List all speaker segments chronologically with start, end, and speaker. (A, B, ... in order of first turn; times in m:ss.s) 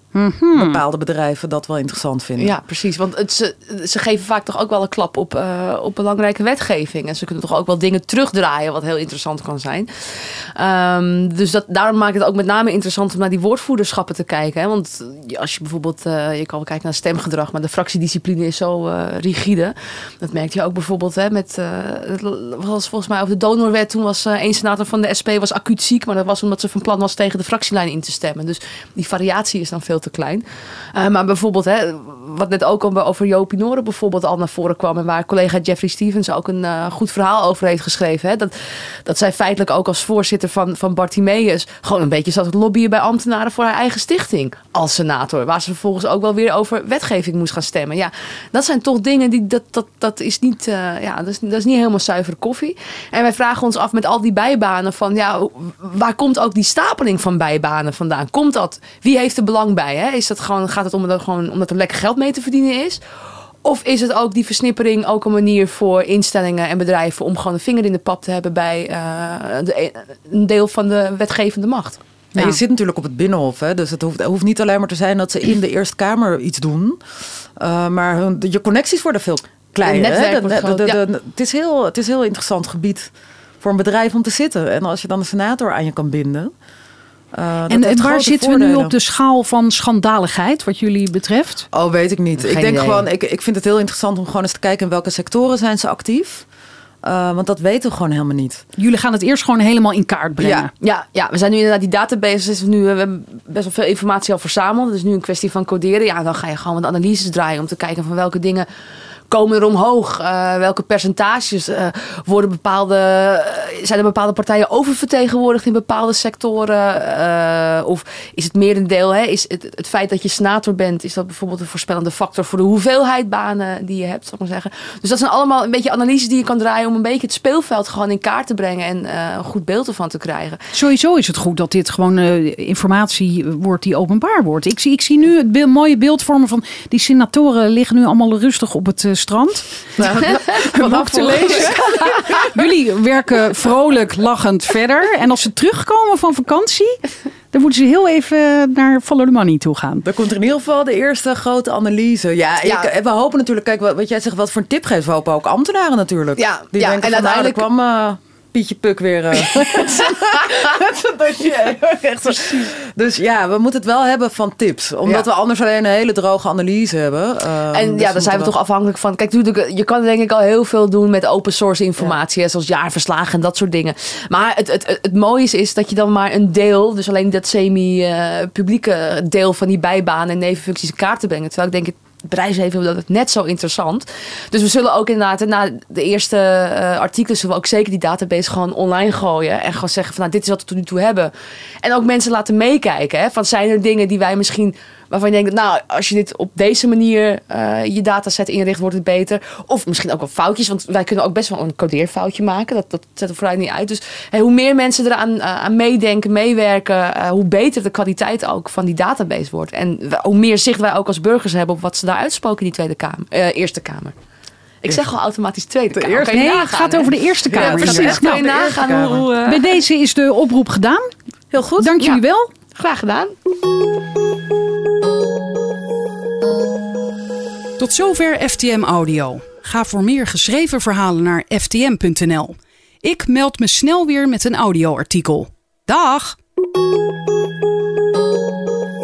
0:00.1-0:00.8 A
0:00.5-0:02.5 B
0:02.4-0:30.4 C
0:30.9-1:03.0 C
1:03.6-1:12.0 C
1:12.4-1:17.0 B
1:17.6-1:26.5 B
1:19.8-1:21.0 C
1:27.3-1:28.9 B
1:27.7-1:31.7 A
1:31.7-1:36.4 B
1:32.4-1:33.0 C
1:37.0-1:38.6 B
1:38.8-1:40.7 A
1:40.4-1:40.7 B
1:40.8-1:48.7 C
1:49.3-2:10.6 C
2:10.7-2:21.8 A
2:20.0-2:22.6 B
2:21.7-2:22.4 C
2:22.4-2:27.0 A
2:27.5-2:30.0 A
2:30.0-2:48.5 B
2:32.6-2:32.9 C
2:36.4-2:37.6 C
2:39.5-2:40.7 C
2:41.6-2:42.7 C
2:47.7-3:11.3 C
3:11.8-3:34.1 C
3:34.8-3:39.6 C
3:36.1-3:38.5 A
3:37.5-3:39.2 B
3:39.4-3:41.1 A
3:41.5-3:41.9 B
3:41.8-3:42.5 A
3:42.7-3:43.3 C
3:47.8-3:56.4 A